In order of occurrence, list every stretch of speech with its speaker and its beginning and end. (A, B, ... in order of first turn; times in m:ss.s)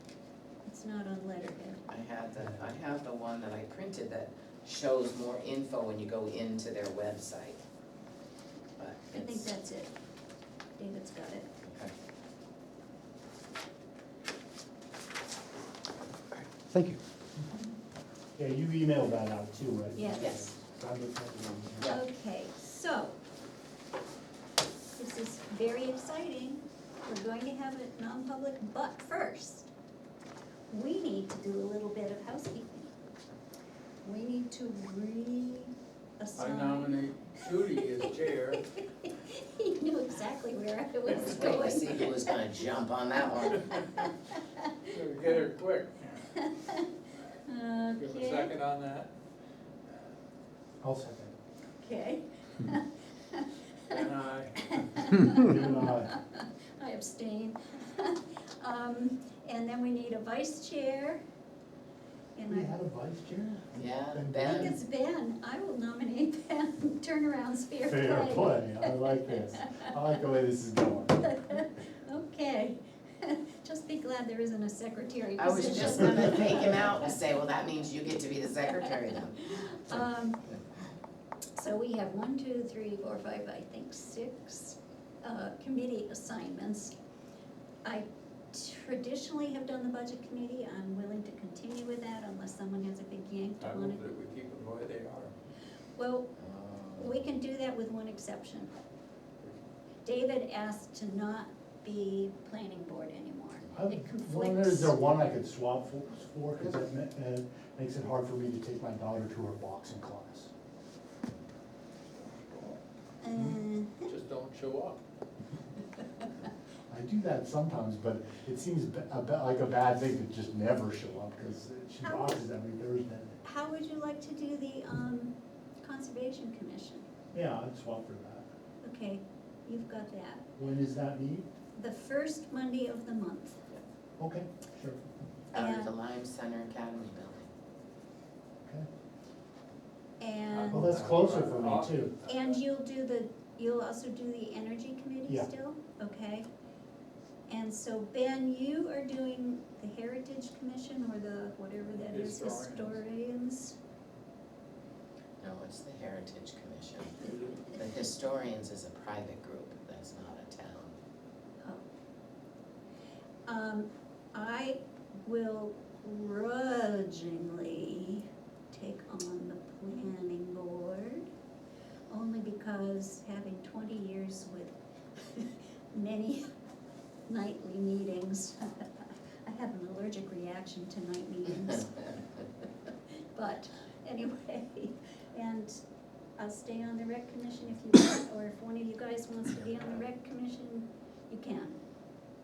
0:00.6-0:01.8 A
0:01.9-0:07.6 B
0:08.8-0:09.5 B
0:09.1-0:09.9 A
0:10.8-0:11.5 A
0:11.6-0:11.9 B
0:16.7-0:17.4 C
0:18.4-0:21.9 C
0:20.0-0:20.3 A
0:20.2-0:20.5 B
0:21.9-0:23.2 A
0:25.0-0:29.7 A
0:30.7-0:32.9 A
0:34.0-0:37.5 A
0:36.4-0:38.6 D
0:38.7-0:42.3 A
0:41.1-0:43.9 B
0:43.7-0:45.4 A
0:44.9-0:46.3 D
0:46.3-0:48.6 A
0:48.0-0:49.1 D
0:50.8-0:51.3 C
0:51.8-1:01.2 A
0:53.9-0:55.0 D
0:55.3-0:56.1 C
1:02.4-1:02.7 A
1:02.5-1:04.8 C
1:03.8-1:04.8 B
1:04.5-1:09.9 A
1:07.8-1:11.3 C
1:11.2-1:17.1 A
1:15.4-1:20.0 B
1:18.7-1:20.4 A
1:21.6-1:26.9 A
1:27.8-1:34.0 A
1:33.6-1:35.3 D
1:36.0-1:36.3 A
1:36.4-1:37.2 B
1:37.0-1:38.7 A
1:40.0-1:44.9 A
1:43.7-1:50.5 C
1:52.2-1:52.8 D
1:53.2-1:54.1 A
1:53.3-1:53.6 C
1:54.0-1:55.0 D
1:56.9-2:03.4 C
2:02.0-2:02.4 A
2:03.4-2:07.1 A
2:07.3-2:08.5 C
2:08.8-2:10.5 A
2:10.6-2:11.5 C
2:11.7-2:13.6 A
2:14.2-2:15.0 C
2:15.5-2:17.5 B
2:15.5-2:16.0 A
2:20.2-2:21.2 A
2:20.5-2:22.5 D
2:20.7-2:22.1 C
2:22.2-2:26.5 A
2:27.5-2:33.8 A
2:31.8-2:33.0 D
2:35.4-2:41.0 B
2:43.5-2:51.3 A
2:52.1-2:56.5 A
2:57.3-3:02.2 A
3:03.2-3:05.8 A
3:06.4-3:11.8 A
3:09.7-3:10.0 B